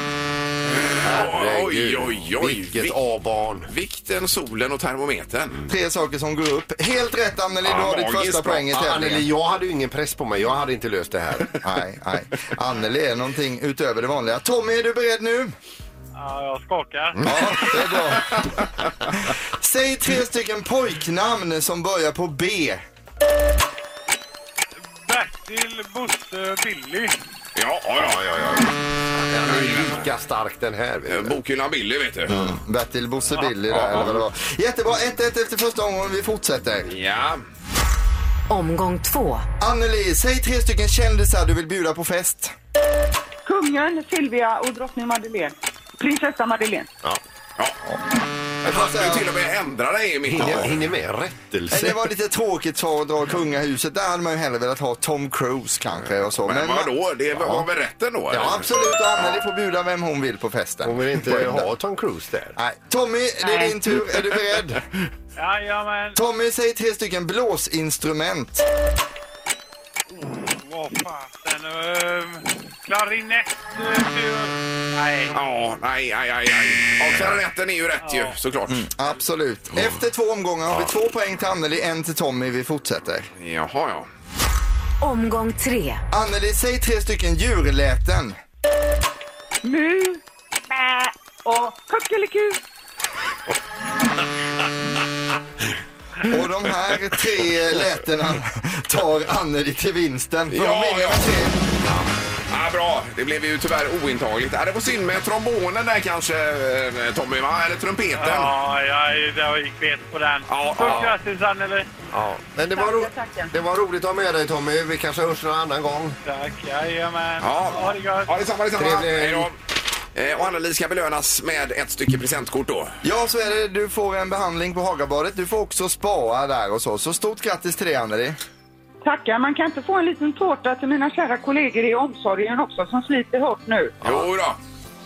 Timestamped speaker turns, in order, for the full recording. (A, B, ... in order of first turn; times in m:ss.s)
0:00.8-0:02.9 A
0:01.0-0:03.7 B
0:03.7-0:05.6 A
0:05.7-0:09.2 C
0:07.6-0:08.7 A
0:08.7-0:11.5 B
0:11.6-0:15.5 C
0:16.1-0:17.7 D
0:17.2-0:18.5 C
0:17.9-0:18.6 A
0:19.3-0:22.8 C
0:25.0-0:27.1 D
0:27.6-0:28.2 A
0:28.0-0:28.7 B
0:29.3-0:31.4 B
0:29.4-0:30.0 A
0:31.1-0:32.4 A
0:32.4-0:36.9 C
0:33.4-0:34.2 A
0:36.9-0:37.4 A
0:38.5-0:39.4 E
0:39.6-0:42.5 C
0:43.4-0:46.9 F
0:48.6-0:50.8 A
0:48.6-0:49.2 C
0:50.3-0:52.0 B
0:51.7-0:56.9 C
0:56.3-0:58.6 A
0:58.3-1:01.7 C
1:00.8-1:02.5 B
1:02.6-1:04.9 C
1:03.4-1:03.8 F
1:05.4-1:06.2 D
1:06.1-1:08.6 C
1:10.2-1:15.4 D
1:15.3-1:18.8 A
1:18.0-1:18.4 D
1:18.7-1:23.3 C
1:23.4-1:24.1 A
1:25.0-1:26.0 E
1:26.1-1:28.4 C
1:29.6-1:32.6 F
1:36.3-1:41.6 C
1:40.5-1:41.3 A
1:42.5-1:48.5 A
1:48.2-1:51.9 D
1:50.5-1:51.1 A
1:52.1-1:56.2 B
1:56.2-1:58.3 D
1:57.4-1:59.5 A
1:58.8-1:59.5 B
2:00.1-2:03.0 A
2:03.0-2:08.4 C
2:09.0-2:14.0 F
2:14.0-2:14.6 A